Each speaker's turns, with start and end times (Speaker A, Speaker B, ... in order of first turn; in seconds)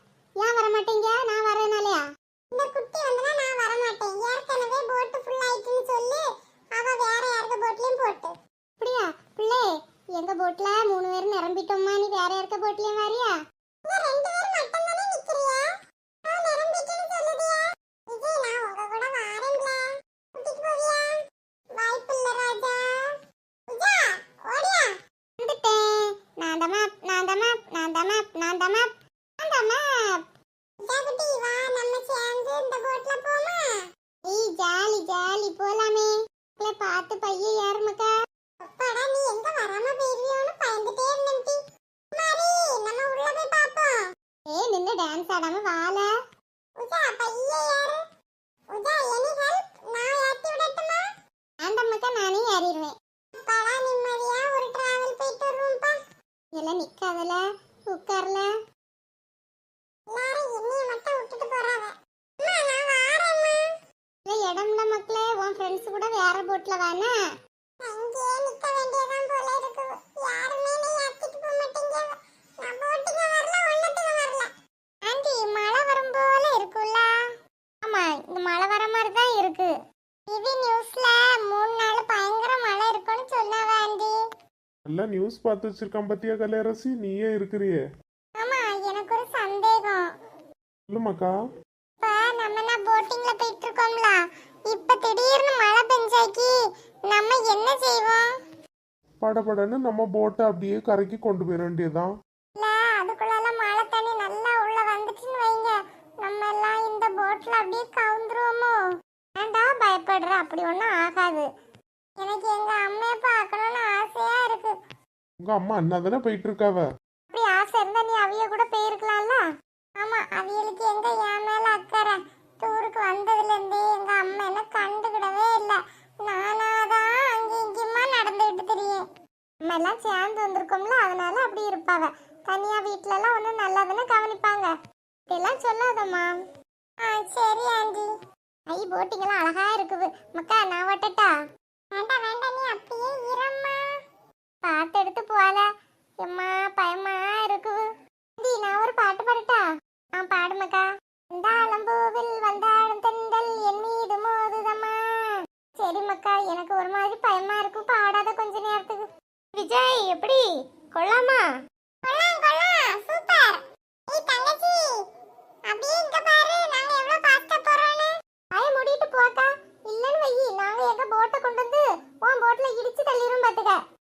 Speaker A: 0.4-13.3, 13.8-15.7, 16.2-21.2, 21.7-23.1, 23.7-30.2, 30.8-38.1, 38.6-41.6, 42.1-44.0, 44.5-46.1, 46.8-48.0, 48.7-51.0, 51.6-56.0, 56.5-58.5, 60.1-63.6, 64.2-67.1, 67.8-74.5, 75.0-77.1, 77.8-79.7, 80.3-84.1, 88.4-90.0, 92.0-96.5, 97.1-98.3, 102.6-108.7, 109.4-111.5, 112.2-114.7, 117.3-119.4, 120.0-129.0, 129.6-134.7, 135.3-136.3, 137.0-138.1, 138.7-141.3, 141.9-143.8, 144.6-145.6, 146.2-147.8, 148.4-149.6, 150.2-160.4, 160.9-161.4, 162.0-164.9, 165.7-173.8
Speaker B: 84.9-87.8, 90.9-91.3, 99.2-102.1, 115.4-116.9